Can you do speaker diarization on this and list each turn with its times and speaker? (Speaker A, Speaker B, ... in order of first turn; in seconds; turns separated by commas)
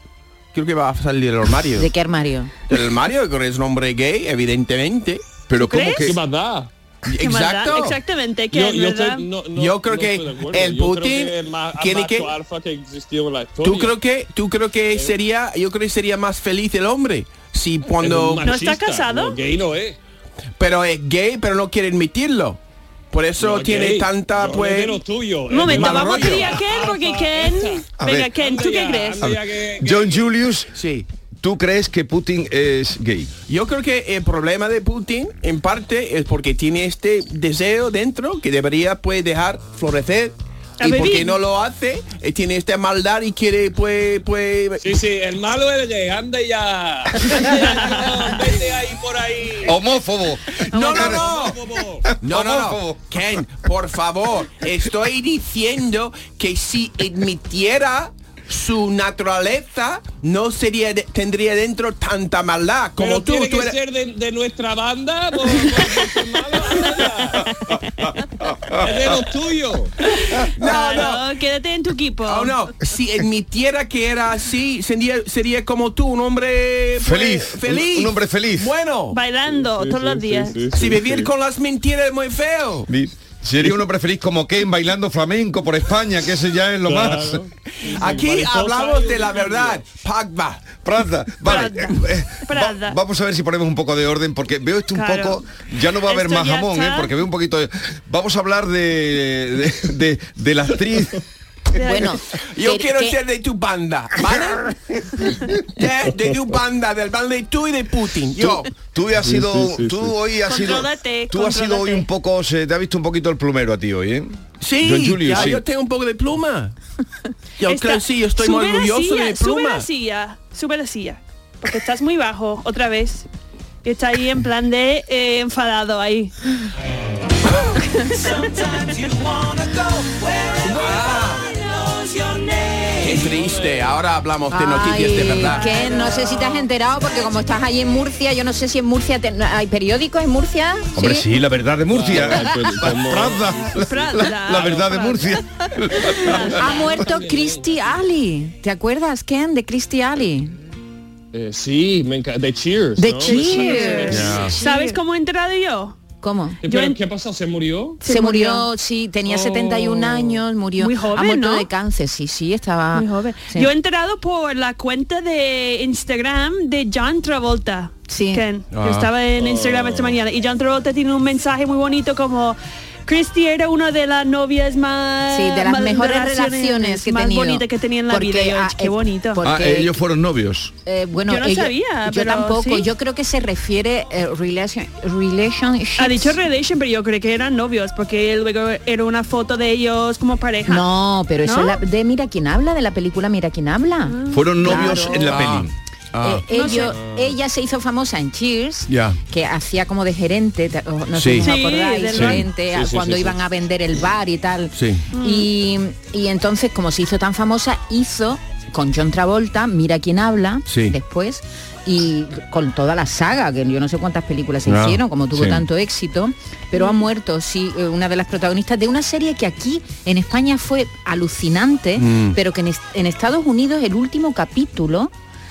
Speaker A: 0.5-1.9, Speaker B: 1.8-2.5, Speaker A: 2.7-5.2, Speaker C: 5.5-6.2, Speaker D: 5.6-6.2, Speaker E: 6.0-6.7, Speaker A: 7.1-8.0, Speaker D: 7.2-9.3, Speaker E: 8.5-14.0, Speaker A: 9.6-12.3, Speaker A: 13.6-18.5, Speaker E: 14.9-15.2, Speaker E: 17.9-20.0, Speaker D: 18.4-19.4, Speaker A: 20.6-22.6, Speaker A: 23.1-25.0, Speaker E: 23.4-30.3, Speaker D: 25.5-29.3, Speaker A: 25.7-26.6, Speaker C: 28.0-28.3, Speaker C: 29.2-30.7, Speaker A: 30.7-31.1, Speaker C: 31.4-33.3, Speaker A: 33.5-44.9, Speaker D: 40.8-41.4, Speaker E: 44.8-49.8, Speaker D: 47.6-47.9, Speaker C: 49.6-51.3, Speaker E: 50.7-52.1, Speaker A: 50.8-51.6, Speaker C: 52.1-53.1, Speaker A: 52.2-63.8, Speaker E: 63.0-67.5, Speaker D: 67.7-68.1, Speaker C: 68.7-69.0, Speaker E: 68.8-69.9, Speaker D: 70.1-72.7, Speaker A: 70.6-71.2, Speaker A: 72.2-79.2, Speaker C: 77.0-78.7, Speaker D: 79.1-80.8, Speaker E: 79.5-81.3, Speaker A: 80.8-82.9, Speaker C: 82.9-87.4, Speaker E: 86.8-89.8, Speaker A: 87.8-90.8, Speaker C: 90.8-101.2, Speaker D: 91.4-93.0, Speaker D: 95.0-95.4, Speaker D: 96.0-97.1, Speaker D: 101.8-102.2, Speaker B: 101.8-103.2, Speaker A: 102.5-104.8, Speaker A: 105.7-108.7, Speaker C: 108.4-114.3, Speaker E: 109.2-110.2, Speaker D: 110.5-112.1, Speaker A: 114.6-116.8, Speaker C: 114.8-115.6, Speaker A: 117.6-119.9, Speaker D: 117.7-123.3, Speaker D: 123.8-126.3, Speaker D: 127.8-128.8, Speaker E: 130.8-131.4, Speaker A: 130.8-131.4, Speaker A: 133.0-135.7, Speaker E: 133.2-133.9, Speaker B: 134.5-141.2, Speaker D: 135.5-136.1, Speaker C: 141.0-146.8, Speaker E: 141.9-143.6, Speaker D: 143.8-145.4, Speaker D: 146.0-146.6, Speaker E: 146.3-147.9, Speaker B: 146.6-150.6, Speaker E: 151.3-154.6, Speaker B: 153.0-154.9, Speaker D: 153.2-156.0, Speaker A: 154.1-154.6, Speaker B: 156.2-156.6, Speaker E: 156.6-158.0, Speaker D: 156.7-157.0, Speaker D: 158.0-158.7, Speaker B: 158.0-163.7, Speaker E: 159.3-160.4, Speaker D: 160.8-161.7, Speaker D: 162.9-179.4, Speaker B: 168.1-168.4, Speaker A: 168.7-169.1, Speaker E: 169.4-170.2, Speaker B: 175.3-180.0, Speaker C: 179.4-180.7, Speaker B: 180.9-186.4, Speaker D: 181.3-182.9, Speaker D: 186.0-190.9, Speaker B: 190.7-195.5, Speaker D: 191.4-191.8, Speaker D: 194.1-195.2, Speaker C: 194.3-195.7, Speaker A: 195.2-196.4, Speaker B: 196.2-225.1, Speaker D: 196.5-197.0, Speaker E: 197.0-197.3, Speaker A: 198.9-199.2, Speaker A: 201.1-201.5, Speaker D: 201.4-202.4, Speaker C: 202.2-202.4, Speaker E: 202.7-203.4, Speaker A: 204.8-205.1, Speaker D: 205.1-205.5, Speaker A: 210.7-211.0, Speaker A: 214.7-215.0, Speaker C: 215.3-215.6, Speaker A: 222.0-222.4